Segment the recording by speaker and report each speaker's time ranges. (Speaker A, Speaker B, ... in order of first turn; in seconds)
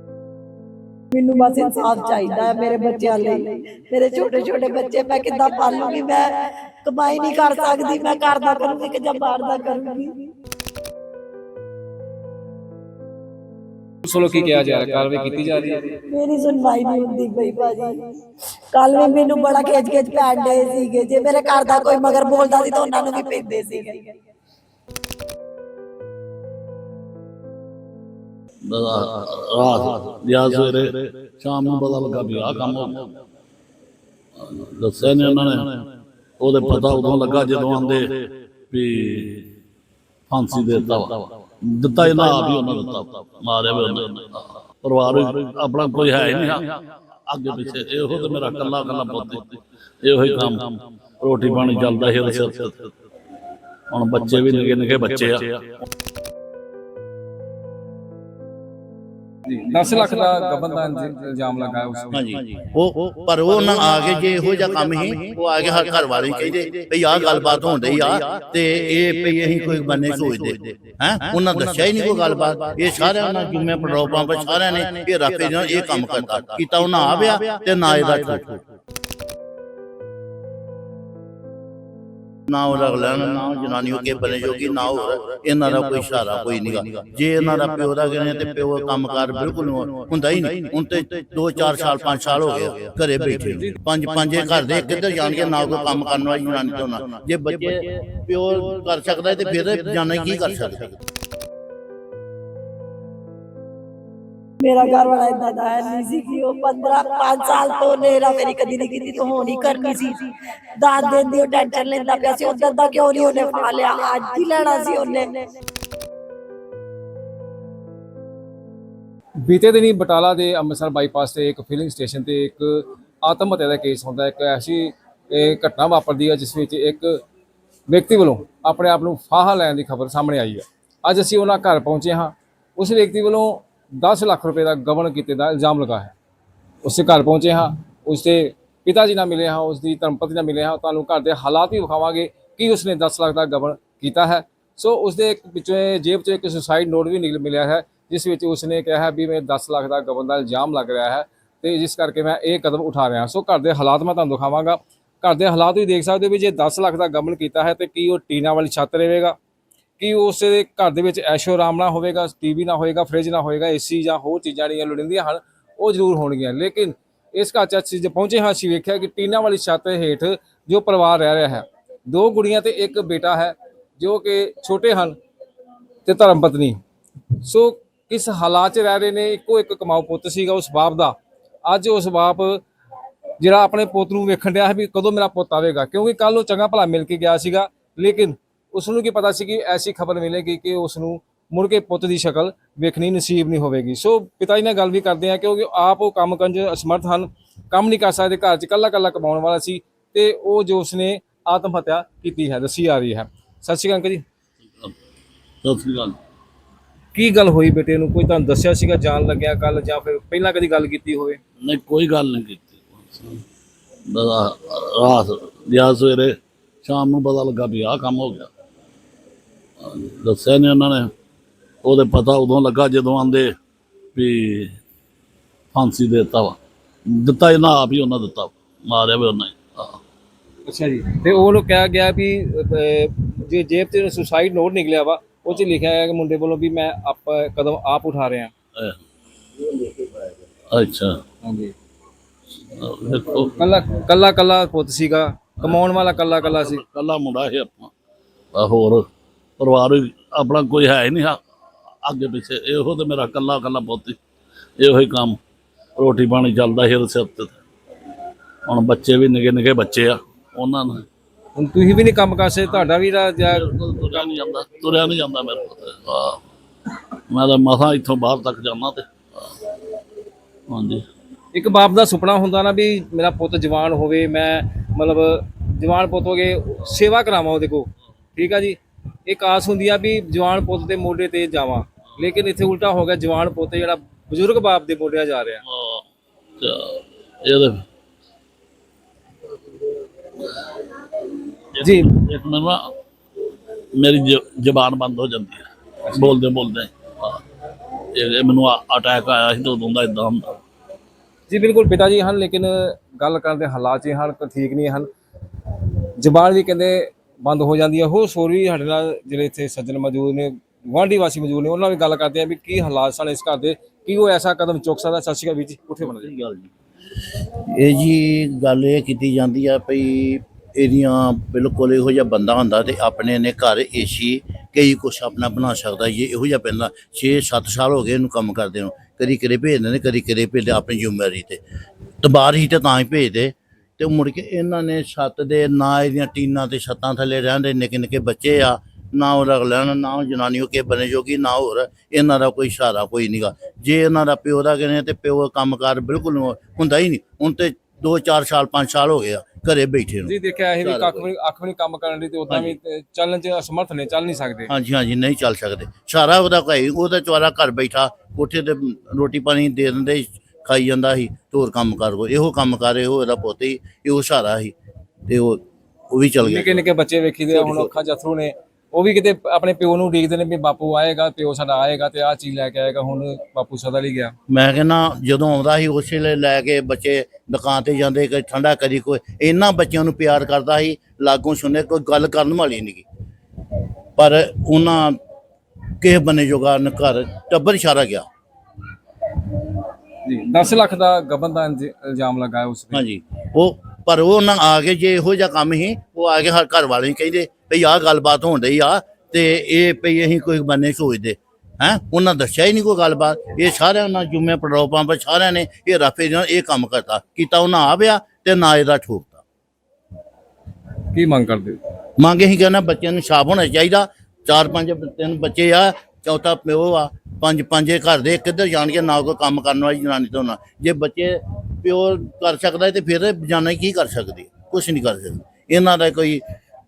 Speaker A: 1.1-6.3, 6.8-10.1, 16.1-18.1, 18.7-24.1, 104.6-110.3, 110.8-115.5
Speaker B: 14.0-16.0, 59.5-62.4, 119.4-127.2, 127.9-136.1, 136.8-159.4, 160.0-175.2, 176.1-176.8, 177.4-182.6, 183.4-204.2, 207.1-211.4, 230.7-238.5, 241.4-241.7, 243.6-246.8, 261.6-264.3, 271.5-285.6, 291.8-292.1, 301.5-305.1, 306.2-316.3, 350.2-354.7, 366.4-374.4, 389.6-393.1, 411.1-411.8
Speaker C: 28.6-33.2, 34.4-35.9, 36.4-39.5, 40.3-52.9, 53.9-55.6, 205.6-206.2, 211.6-213.4, 214.1-218.5, 219.8-221.1, 221.8-223.6, 224.2-224.8, 225.7-230.0, 240.7-241.2, 242.8-243.5, 246.4-247.9, 248.5-249.1, 249.6-251.4, 252.0-254.2, 254.8-255.4, 256.0-257.6, 258.7-261.1, 263.4-266.4, 267.3-269.1, 270.7-271.1, 285.7-286.0, 286.6-287.9, 291.8-292.9, 293.9-297.4, 298.1-300.6
Speaker D: 62.1-78.6, 82.5-101.0, 317.5-331.6, 332.2-350.3, 350.8-351.2, 354.7-364.8, 365.3-366.8, 367.5-367.9, 374.5-383.1, 384.2-385.2, 386.0-388.2, 392.9-409.4, 412.2-426.4